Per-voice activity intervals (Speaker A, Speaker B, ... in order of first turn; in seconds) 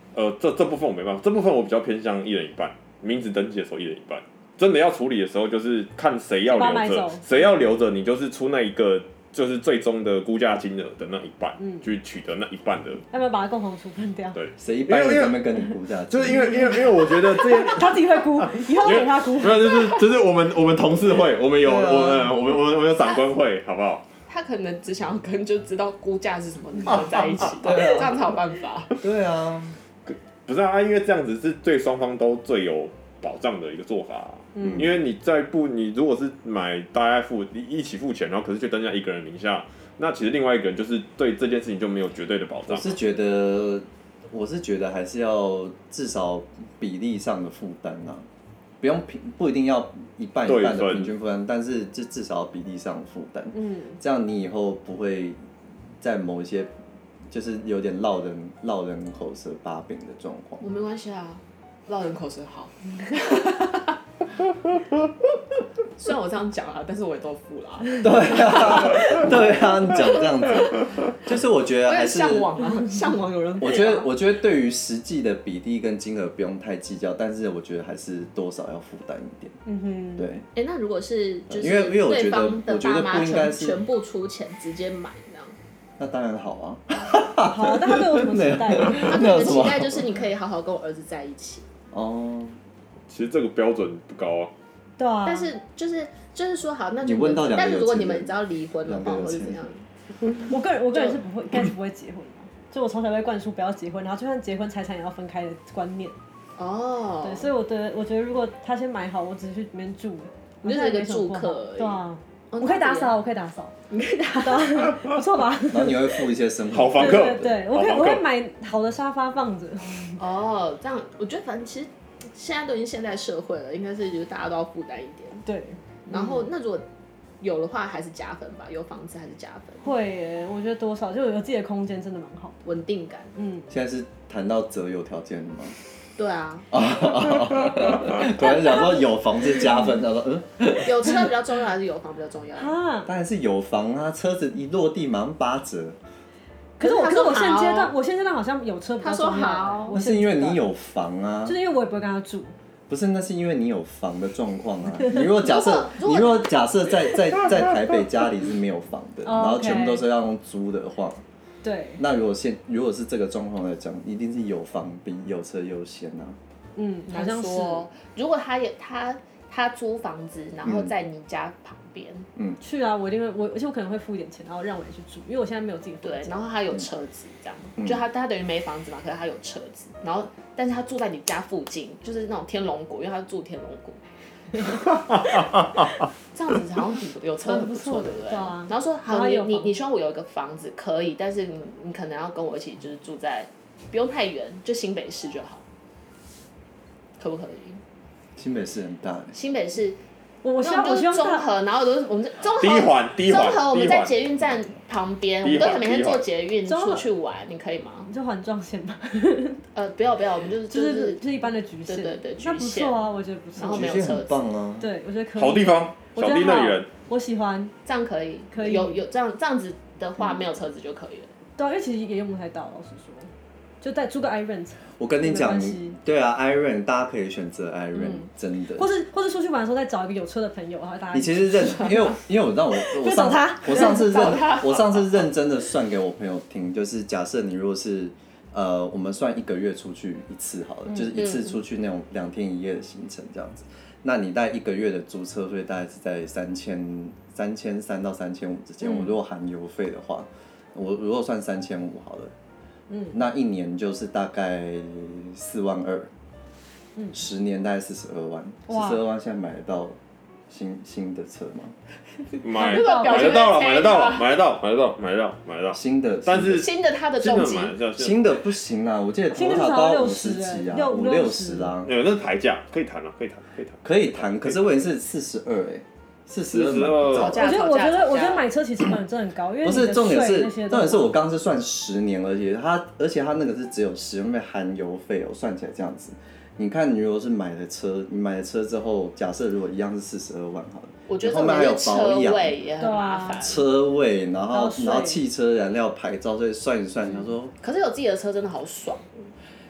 Speaker A: 0.1-13.0, 14.3-15.5, 16.1-24.1, 30.1-43.0, 50.5-51.1, 93.1-94.5, 116.7-118.2, 185.1-185.7, 202.6-204.1, 205.4-206.3, 215.4-216.9, 262.4-268.4, 271.9-274.7, 276.5-277.4
Speaker B: 6.5-7.2, 11.6-11.9, 13.1-14.4, 17.3-19.7, 34.5-34.9, 53.5-54.0, 79.7-80.3, 87.4-89.6, 95.0-95.5, 100.5-106.2, 107.2-113.8, 114.4-116.1, 117.0-120.2, 125.4-126.5, 129.8-132.6, 133.4-133.7, 142.6-143.1, 146.8-150.7, 151.4-152.5, 159.2-160.1, 161.6-162.0, 166.8-167.9, 172.6-176.5, 187.4-189.7, 200.4-201.5, 206.7-207.1, 208.1-209.6, 210.7-214.0, 214.8-217.7, 218.5-219.0, 221.6-223.3, 223.8-226.0, 228.8-232.1, 232.8-234.5, 252.9-253.2, 258.7-259.0, 262.5-263.6, 269.3-271.7, 277.3-281.2, 292.8-293.4, 294.5-295.2
Speaker C: 14.6-16.9, 21.6-22.4, 27.6-28.3, 29.0-29.8, 34.6-34.9, 42.7-48.3, 48.8-55.4, 56.0-56.7, 57.3-60.7, 68.0-72.5, 73.6-79.6, 80.2-80.5, 81.5-83.8, 86.0-90.1, 91.9-92.6, 97.0-99.7, 115.7-117.5, 133.7-135.8, 136.7-141.3, 143.1-146.0, 149.9-151.6, 152.9-161.2, 162.0-166.4, 170.6-170.9, 177.8-178.1, 198.4-199.4, 213.6-214.9, 225.0-228.9, 231.1-252.3, 253.1-256.1, 257.1-260.0, 260.5-261.8, 265.7-266.7, 268.0-272.0, 273.8-277.6, 279.6-292.6, 293.4-297.6
Speaker D: 23.0-23.2, 24.3-29.0, 60.6-64.0, 66.0-69.6, 71.9-74.1, 80.5-85.6, 89.0-91.7, 95.2-99.8, 100.9-101.2, 106.6-107.5, 110.6-112.0, 112.5-113.1, 113.9-115.0, 120.2-125.4, 126.1-126.9, 127.4-129.9, 132.6-133.3, 136.2-136.7, 140.8-142.8, 146.8-147.9, 149.0-150.0, 155.3-156.5, 167.1-172.3, 176.0-184.0, 186.3-195.6, 197.2-197.8, 199.3-200.0, 200.6-208.1, 209.7-211.2, 211.9-213.0, 213.6-214.5, 217.8-221.3, 234.3-234.8, 241.1-241.5, 262.6-264.4, 266.5-267.8, 277.1-278.5, 291.1-293.6, 297.6-299.3